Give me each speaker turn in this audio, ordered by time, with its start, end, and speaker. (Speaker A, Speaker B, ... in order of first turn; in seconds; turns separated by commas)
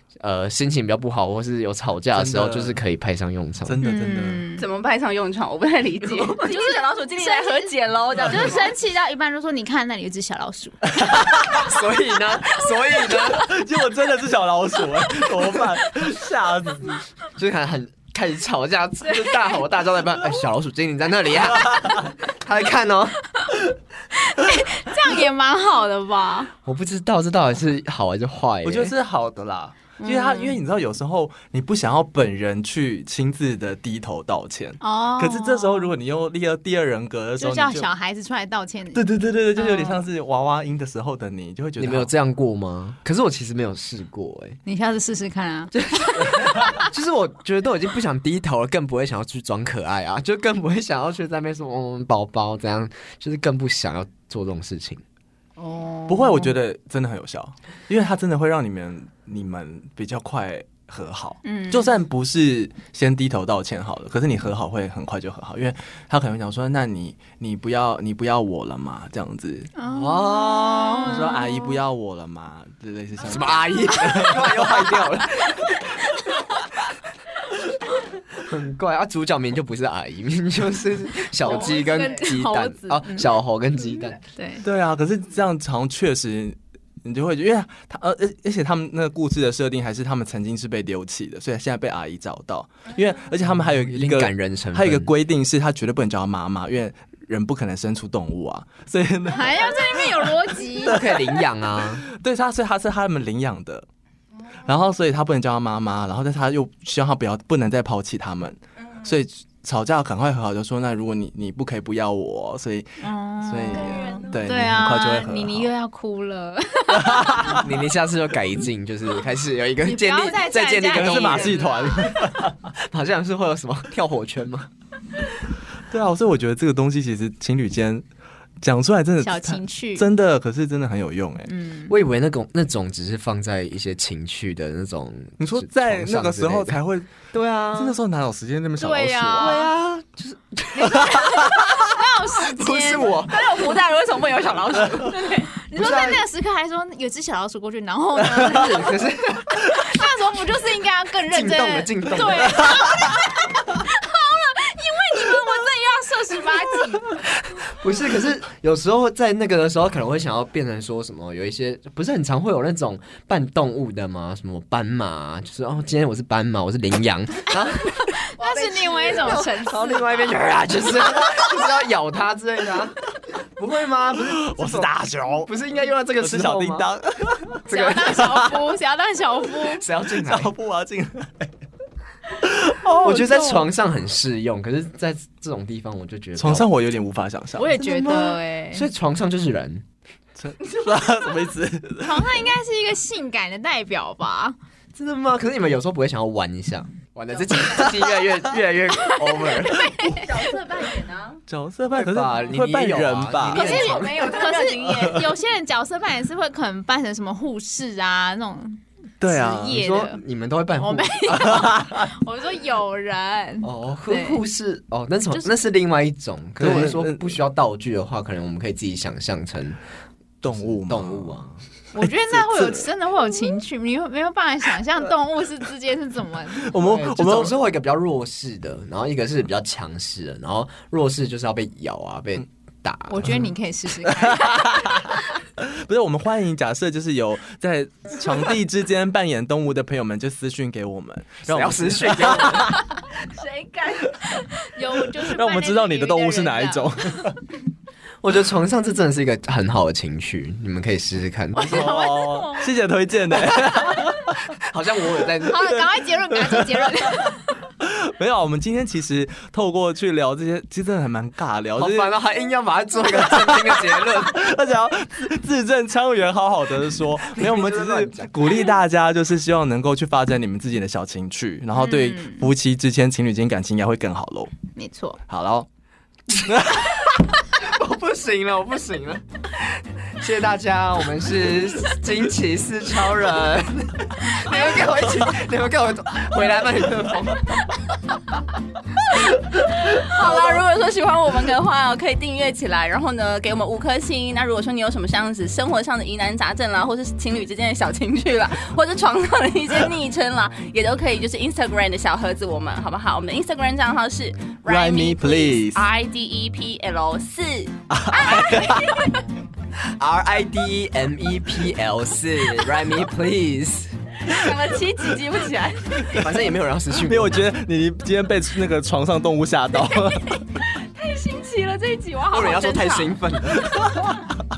Speaker A: 0.1-3.8, Speaker B: 2.1-2.8, Speaker B: 3.6-4.5, Speaker C: 3.8-4.6, Speaker D: 4.6-8.7, Speaker C: 6.3-11.2, Speaker B: 10.9-11.7, Speaker A: 11.5-13.5, Speaker B: 13.2-17.0, Speaker A: 17.4-23.2, Speaker C: 24.2-26.5, Speaker A: 26.6-28.9, Speaker B: 28.6-37.9, Speaker C: 30.0-30.6, Speaker C: 34.8-35.9, Speaker C: 37.4-39.0, Speaker B: 39.0-42.1, Speaker C: 39.6-40.0, Speaker A: 41.8-44.6, Speaker C: 44.7-46.9, Speaker A: 45.8-55.0, Speaker C: 55.6-56.5, Speaker B: 56.1-69.7, Speaker C: 61.5-61.9, Speaker C: 69.8-71.8, Speaker A: 69.8-71.3, Speaker B: 71.0-75.3, Speaker A: 73.2-76.0, Speaker A: 78.3-84.2, Speaker C: 81.4-83.3, Speaker C: 84.3-84.6, Speaker B: 84.6-103.9, Speaker A: 93.9-95.1, Speaker C: 99.3-101.1, Speaker A: 100.9-102.0, Speaker B: 104.6-115.7, Speaker C: 113.0-117.6, Speaker D: 113.7-114.5, Speaker B: 116.9-117.7, Speaker A: 117.5-121.7, Speaker C: 119.8-122.1, Speaker B: 120.9-122.6, Speaker A: 122.8-124.7, Speaker B: 125.9-128.1, Speaker B: 128.6-131.5, Speaker C: 129.2-130.0, Speaker C: 131.5-131.9, Speaker A: 131.9-136.8, Speaker B: 135.4-137.2, Speaker A: 137.3-138.0, Speaker B: 137.8-139.7, Speaker C: 138.8-139.7, Speaker A: 139.4-141.6, Speaker C: 140.8-143.2, Speaker B: 141.0-141.3, Speaker A: 142.3-143.6, Speaker D: 143.1-145.5, Speaker C: 145.6-149.0, Speaker A: 145.8-146.2, Speaker A: 148.4-149.6, Speaker C: 149.6-157.2, Speaker A: 151.3-152.7, Speaker B: 152.6-153.2, Speaker A: 157.4-168.2, Speaker C: 168.1-170.3, Speaker D: 168.4-169.5, Speaker A: 169.1-173.0, Speaker A: 173.6-176.9, Speaker B: 174.3-175.5, Speaker B: 176.2-178.6, Speaker A: 177.7-178.2, Speaker C: 177.7-179.8, Speaker A: 179.7-180.5, Speaker B: 180.1-181.5, Speaker B: 182.3-183.7, Speaker A: 183.0-186.7, Speaker B: 186.4-188.4, Speaker C: 187.6-188.9, Speaker A: 188.7-189.8, Speaker B: 190.4-192.4, Speaker C: 192.0-194.6, Speaker A: 194.9-199.9, Speaker C: 199.0-200.3, Speaker D: 200.0-201.4, Speaker B: 201.5-203.6, Speaker A: 201.9-204.4, Speaker D: 203.5-205.3, Speaker C: 203.5-210.2, Speaker B: 209.2-209.8, Speaker A: 209.6-211.6, Speaker C: 210.8-214.4, Speaker B: 211.3-212.1, Speaker A: 213.6-219.8, Speaker B: 216.6-217.4, Speaker B: 220.4-221.4, Speaker A: 220.5-221.6, Speaker C: 221.9-226.7, Speaker B: 222.0-222.9, Speaker B: 226.6-227.5, Speaker A: 226.8-233.5, Speaker C: 233.1-235.1, Speaker B: 234.0-242.8, Speaker A: 241.5-242.8, Speaker D: 243.2-244.2, Speaker C: 244.6-246.9, Speaker B: 245.2-247.4, Speaker A: 248.2-251.9, Speaker C: 251.5-252.7, Speaker B: 251.6-254.4, Speaker A: 253.5-253.9, Speaker A: 254.6-255.8, Speaker C: 255.4-257.6, Speaker B: 256.4-256.9, Speaker B: 257.8-262.1, Speaker A: 261.8-264.4, Speaker B: 263.1-274.5, Speaker A: 267.4-268.6, Speaker C: 271.8-272.5, Speaker C: 274.8-275.2, Speaker B: 275.3-275.7, Speaker B: 276.4-277.2, Speaker A: 277.5-287.7, Speaker D: 289.9-309.1, Speaker B: 304.7-305.9, Speaker B: 307.9-308.9, Speaker A: 309.8-313.9, Speaker D: 314.3-316.2, Speaker A: 316.1-317.5, Speaker B: 316.9-320.4, Speaker D: 319.9-323.2, Speaker A: 322.3-323.6, Speaker B: 323.6-324.2